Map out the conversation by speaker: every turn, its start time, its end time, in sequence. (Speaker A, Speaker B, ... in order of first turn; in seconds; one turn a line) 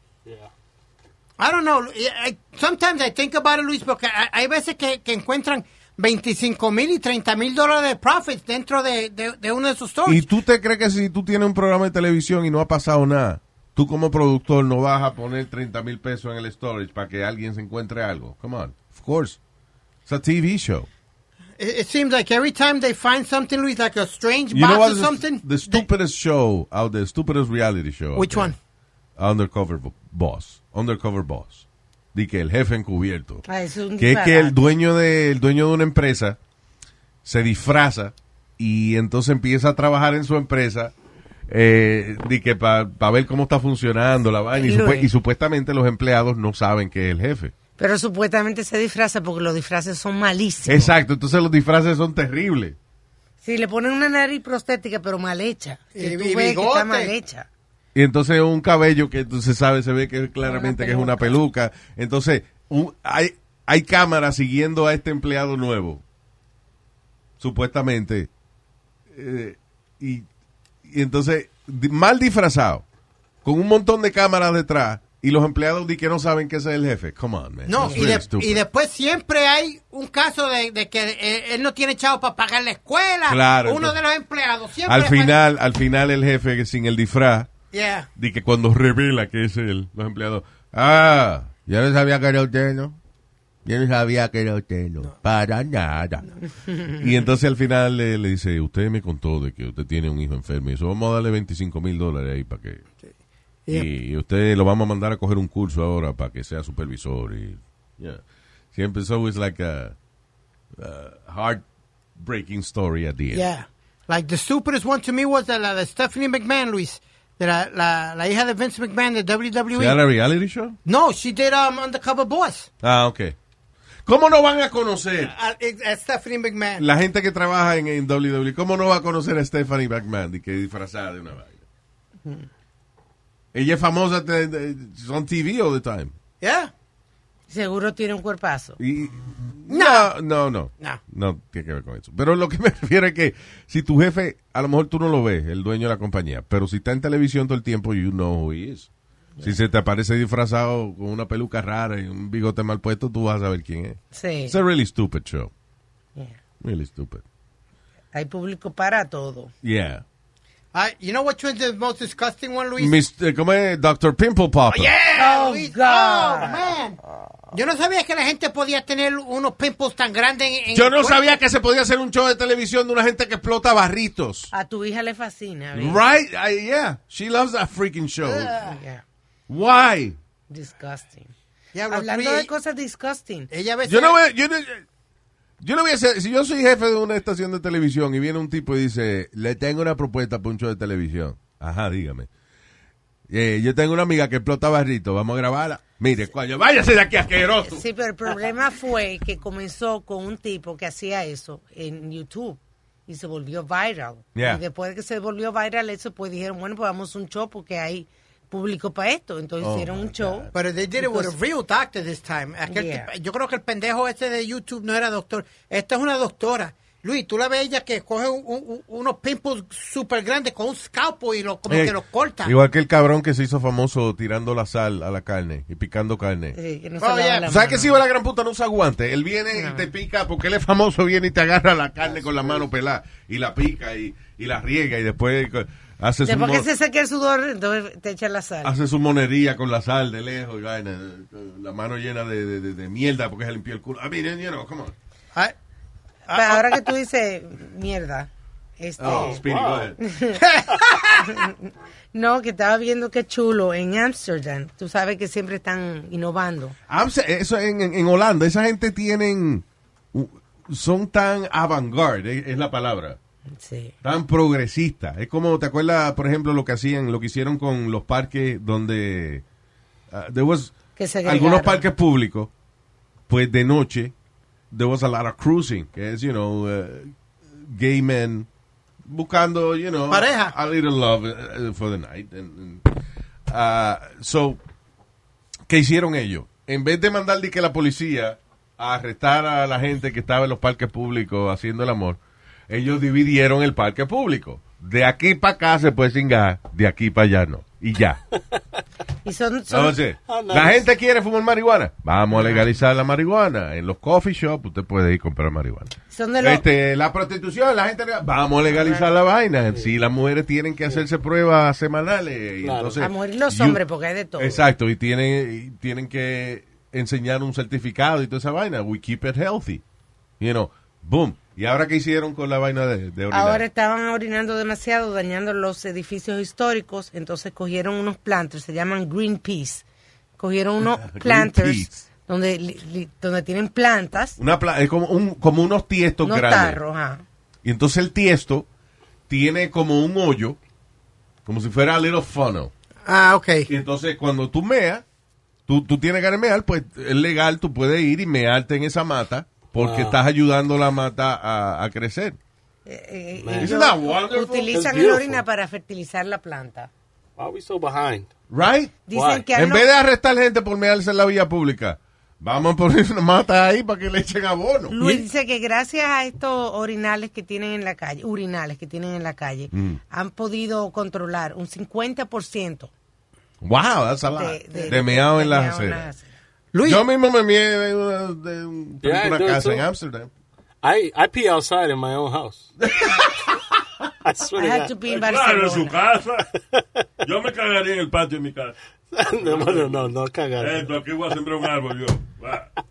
Speaker A: 0.2-0.5
Speaker B: 1.4-10.2
Speaker C: 10.1-19.4
Speaker C: 20.1-20.9
Speaker B: 21.6-25.8
Speaker C: 24.5-28.5
Speaker B: 28.1-28.6
Speaker C: 29.2-33.5
Speaker D: 33.5-34.6
Speaker C: 34.0-36.4
Speaker C: 37.2-40.9
Speaker C: 41.5-47.5
Speaker D: 44.5-45.1
Speaker D: 47.8-50.9
Speaker C: 50.7-52.8
Speaker D: 53.4-57.5
Speaker B: 55.9-57.1
Speaker C: 58.0-66.0
Speaker D: 60.5-61.4
Speaker C: 67.4-68.3
Speaker C: 69.1-70.3
Speaker C: 70.8-72.8
Speaker C: 73.4-78.7
Speaker B: 77.7-85.3
Speaker D: 77.8-78.1
Speaker C: 83.3-84.0
Speaker C: 84.8-87.5
Speaker B: 87.7-88.1
Speaker C: 88.2-93.0
Speaker C: 93.7-96.3
Speaker C: 97.0-102.8
Speaker C: 103.7-108.2
Speaker C: 108.7-110.0
Speaker C: 110.8-111.6
Speaker C: 112.2-113.5
Speaker B: 113.3-120.0
Speaker C: 119.7-120.8
Speaker B: 120.8-122.7
Speaker C: 122.8-123.4
Speaker C: 124.1-125.3
Speaker B: 125.2-126.8
Speaker C: 126.8-131.6
Speaker C: 133.5-136.1
Speaker B: 136.4-136.7
Speaker D: 137.5-138.8
Speaker C: 138.8-148.9
Speaker B: 139.7-140.1
Speaker C: 149.4-155.5
Speaker D: 154.1-154.6
Speaker C: 156.6-157.2
Speaker D: 158.1-159.5
Speaker C: 159.6-160.0
Speaker B: 160.7-163.0
Speaker C: 162.8-164.9
Speaker B: 164.7-167.0
Speaker D: 165.2-166.6
Speaker B: 167.5-171.4
Speaker C: 170.7-174.5
Speaker D: 174.5-176.0
Speaker C: 175.8-178.5
Speaker B: 178.2-178.8
Speaker D: 178.6-179.0
Speaker C: 179.5-180.2
Speaker D: 180.5-181.3
Speaker B: 181.7-182.5
Speaker D: 181.9-183.5
Speaker B: 183.5-184.2
Speaker C: 183.9-184.8
Speaker C: 185.6-192.3
Speaker C: 193.3-197.8
Speaker D: 197.6-211.3
Speaker C: 204.3-204.6
Speaker C: 209.6-210.5
Speaker B: 210.5-222.5
Speaker D: 212.7-213.1
Speaker C: 221.7-226.6
Speaker D: 226.6-228.0
Speaker B: 227.0-227.5
Speaker C: 227.5-236.7
Speaker D: 229.6-229.9
Speaker D: 236.2-238.8
Speaker C: 238.6-244.9
Speaker B: 246.3-246.8
Speaker D: 246.3-249.4
Speaker C: 249.0-250.0
Speaker A: 249.1-249.9
Speaker D: 250.0-250.4
Speaker B: 250.4-251.5
Speaker D: 251.2-256.8
Speaker C: 256.9-263.2
Speaker D: 263.6-263.9
Speaker C: 264.0-269.4
Speaker C: 270.1-272.5
Speaker D: 271.0-271.9
Speaker C: 273.3-274.1
Speaker C: 274.7-278.5
Speaker C: 279.1-282.9
Speaker B: 280.1-280.5
Speaker C: 283.5-284.6
Speaker C: 285.7-298.2
Speaker D: 299.2-300.0
Speaker C: 299.7-313.8
Speaker A: 300.3-300.9
Speaker D: 302.4-302.6
Speaker D: 306.1-306.6
Speaker A: 308.8-309.1
Speaker A: 312.6-313.0
Speaker D: 313.0-314.6
Speaker C: 314.4-319.8
Speaker C: 320.4-323.6
Speaker D: 323.3-329.9
Speaker D: 330.4-334.4
Speaker C: 330.8-332.0
Speaker C: 334.4-336.8
Speaker D: 336.2-337.2
Speaker C: 337.6-338.7
Speaker C: 339.3-340.6
Speaker C: 341.5-342.7
Speaker B: 343.1-343.7
Speaker C: 343.7-345.0
Speaker C: 345.7-352.4
Speaker A: 349.8-350.2
Speaker D: 352.9-356.9
Speaker A: 353.4-353.9
Speaker C: 353.6-354.7
Speaker A: 354.7-355.4
Speaker A: 357.4-358.3
Speaker C: 358.5-364.9
Speaker D: 359.1-359.9
Speaker A: 359.1-359.4
Speaker D: 364.9-372.9
Speaker C: 369.7-370.0
Speaker C: 373.6-376.1
Speaker D: 374.3-376.3
Speaker B: 376.7-377.0
Speaker C: 376.8-380.3
Speaker A: 379.0-379.9
Speaker A: 380.8-382.7
Speaker C: 382.8-383.6
Speaker A: 384.2-384.9
Speaker D: 384.6-386.0
Speaker E: 385.1-386.5
Speaker E: 387.2-388.8
Speaker A: 389.1-390.9
Speaker E: 389.4-392.7